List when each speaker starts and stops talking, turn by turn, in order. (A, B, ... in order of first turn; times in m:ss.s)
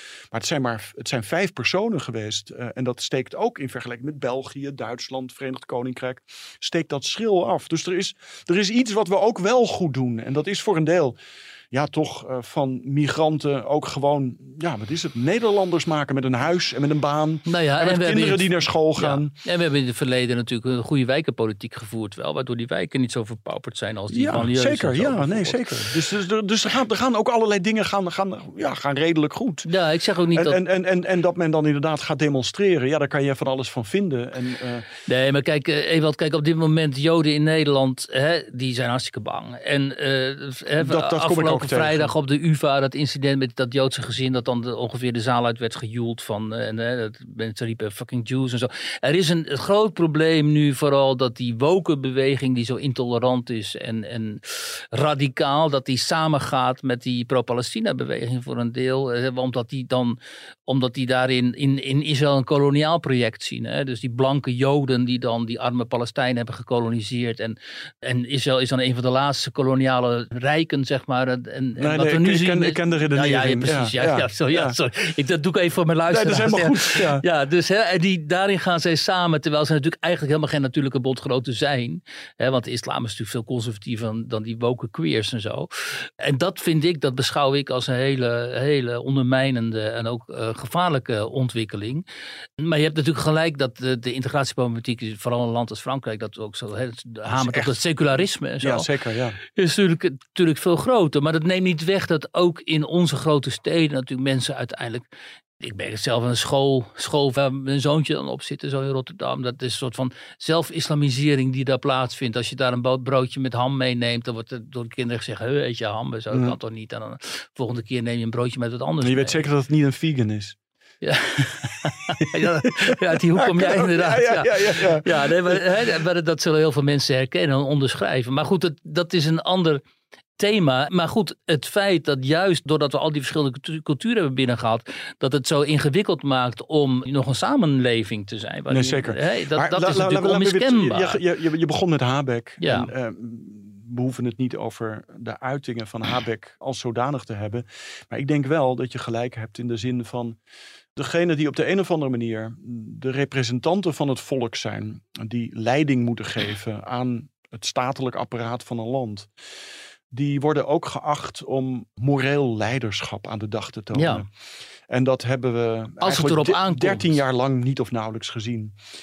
0:00.3-0:11.2 A
0:11.7-0:19.3 A
0:17.5-0:25.7 B
0:24.1-0:29.7 A
0:29.6-0:30.6 B
0:30.3-0:34.9 A
0:35.1-1:32.0 B
0:40.8-0:42.1 A
1:11.8-1:14.8 A
1:16.1-1:17.2 A
1:32.6-1:38.9 B
1:37.3-1:37.8 A
1:38.6-1:39.4 A
1:39.4-1:45.1 B
1:45.6-1:59.4 B
1:56.3-1:56.6 A
1:59.0-2:00.6 A
2:01.0-2:09.8 B
2:03.4-2:05.6 A
2:10.4-2:21.2 B
2:18.7-2:30.4 A
2:22.6-2:22.9 B
2:31.0-2:39.3 A
2:40.1-2:44.3 A
2:43.9-2:44.2 B
2:44.9-2:48.8 A
2:46.0-2:47.2 B